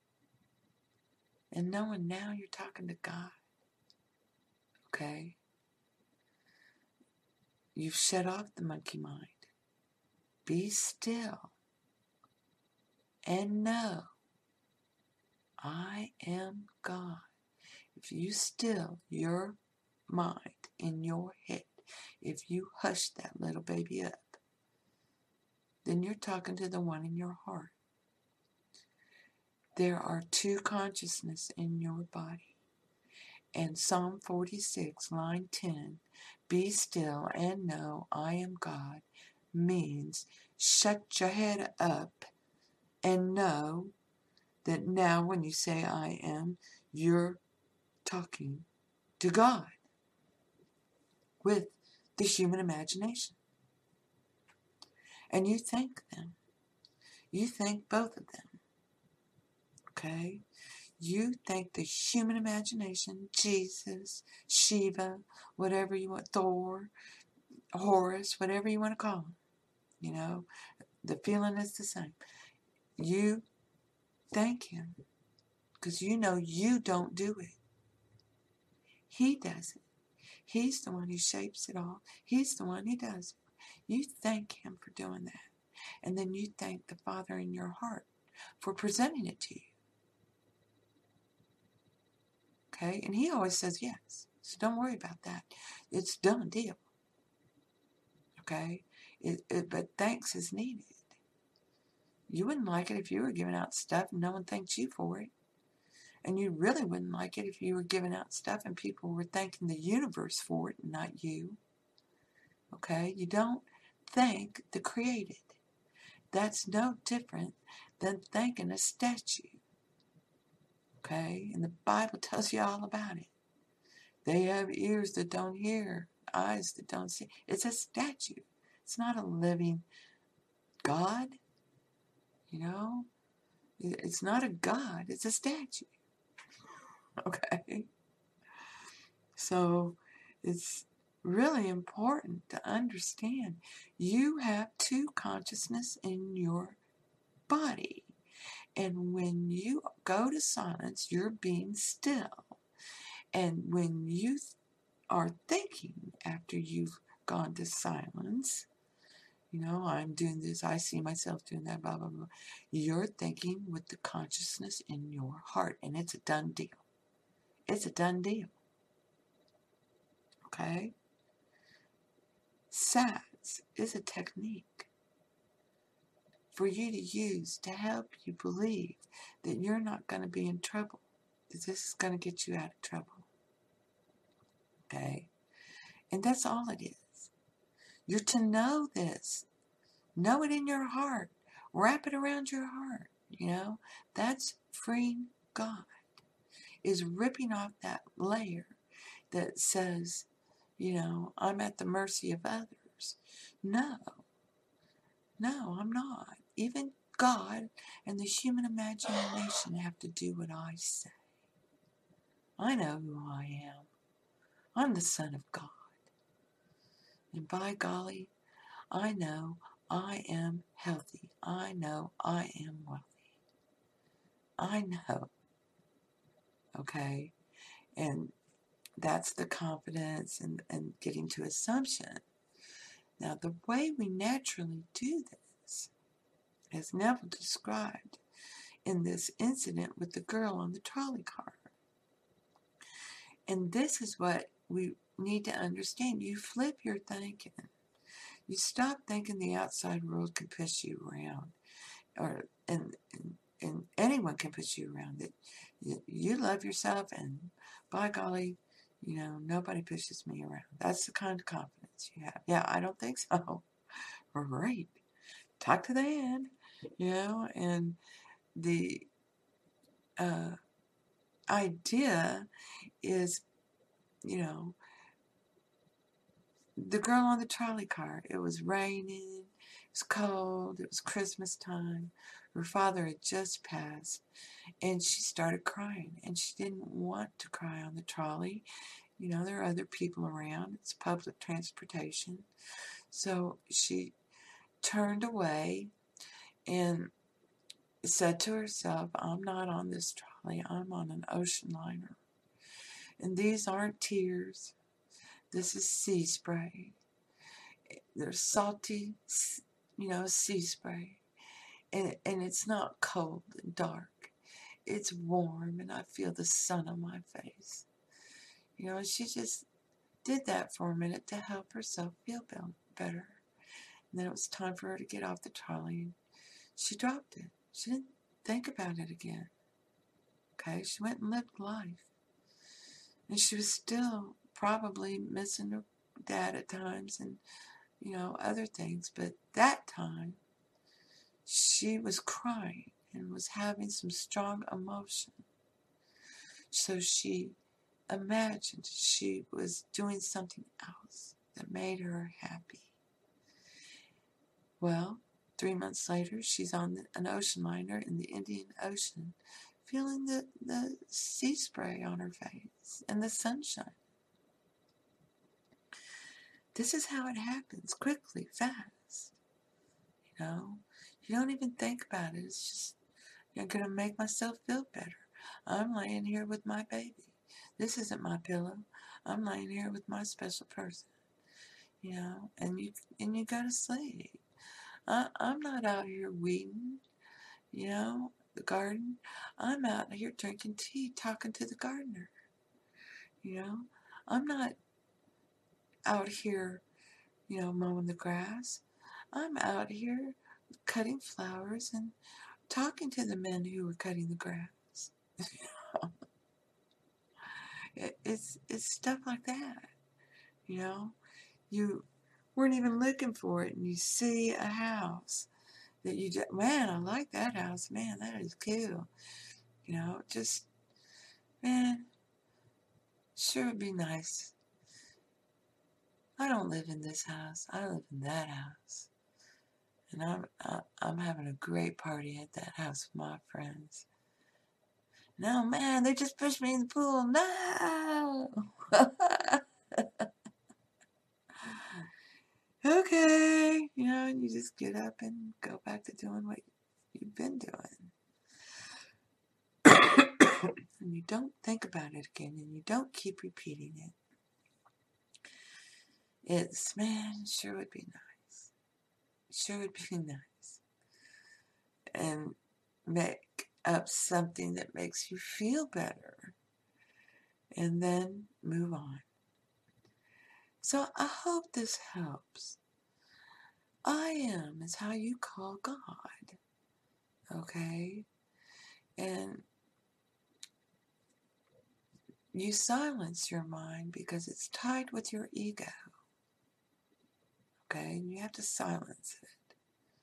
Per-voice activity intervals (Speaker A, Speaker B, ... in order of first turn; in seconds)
Speaker A: 1.5-3.4, 4.9-5.4, 7.7-9.5, 10.4-11.6, 13.2-14.1, 15.6-17.3, 17.9-24.4, 25.8-27.7, 29.8-32.6, 33.5-42.3, 43.0-43.9, 44.6-47.4, 48.0-48.7, 49.2-49.8, 51.4-53.4, 55.3-56.4, 57.3-58.6, 59.9-60.4, 61.0-66.9, 67.7-69.4, 70.0-70.5, 71.0-72.2, 73.0-73.5, 74.3-75.0, 75.8-77.6, 79.1-79.8, 80.5-89.7, 92.7-96.8, 98.4-101.2, 102.3-105.3, 106.2-111.6, 112.7-115.6, 116.3-119.6, 121.0-123.3, 124.2-129.8, 130.8-131.4, 132.5-133.1, 133.8-136.0, 137.2-137.9, 139.3-146.8, 147.5-148.2, 148.8-152.6, 153.3-154.6, 155.1-158.7, 159.5-166.8, 167.7-168.6, 170.5-170.9, 172.7-174.9, 176.5-183.3, 184.9-185.3, 186.1-187.3, 188.1-189.5, 190.2-196.1, 196.8-198.8, 199.3-204.3, 205.4-211.2, 212.6-213.9, 214.7-216.0, 217.3-218.3, 218.9-223.3, 224.6-225.3, 226.8-227.3, 227.9-228.3, 229.0-232.2, 233.2-235.9, 236.7-238.2, 238.8-241.7, 243.5-247.7, 248.5-251.5, 252.2-263.7, 264.3-265.0, 265.6-268.0, 268.5-269.1, 270.2-270.6, 271.5-272.5, 273.0-273.4, 274.2-274.8, 276.8-284.2, 284.8-288.6, 289.2-292.5, 293.1-294.1, 294.8-295.9, 296.7-297.1, 298.0-302.2, 303.2-304.8, 305.5-307.0, 307.9-311.2, 311.9-314.3, 314.9-317.9, 318.8-319.7, 320.2-323.4, 324.1-326.2, 326.8-329.5, 330.6-332.1, 333.3-337.4, 338.0-340.4, 341.4-345.4, 346.7-347.6, 348.1-352.9, 354.8-364.0, 366.7-369.4, 370.2-373.0, 373.5-381.1, 382.0-384.4, 385.1-387.0, 387.7-392.3, 393.4-394.8, 396.1-396.8, 397.5-402.1, 402.7-406.1, 407.9-409.9, 410.7-411.2, 411.7-415.5, 416.0-419.1, 419.8-420.7, 421.6-422.1, 423.3-424.6, 426.4-429.1, 430.1-434.1, 435.4-440.2, 441.6-442.0, 442.8-448.1, 449.9-454.2, 456.4-458.7, 459.5-460.8, 462.1-466.6, 467.7-469.3, 470.8-472.8, 474.0-476.6, 477.5-478.3, 479.2-479.7, 482.5-486.1, 487.9-489.8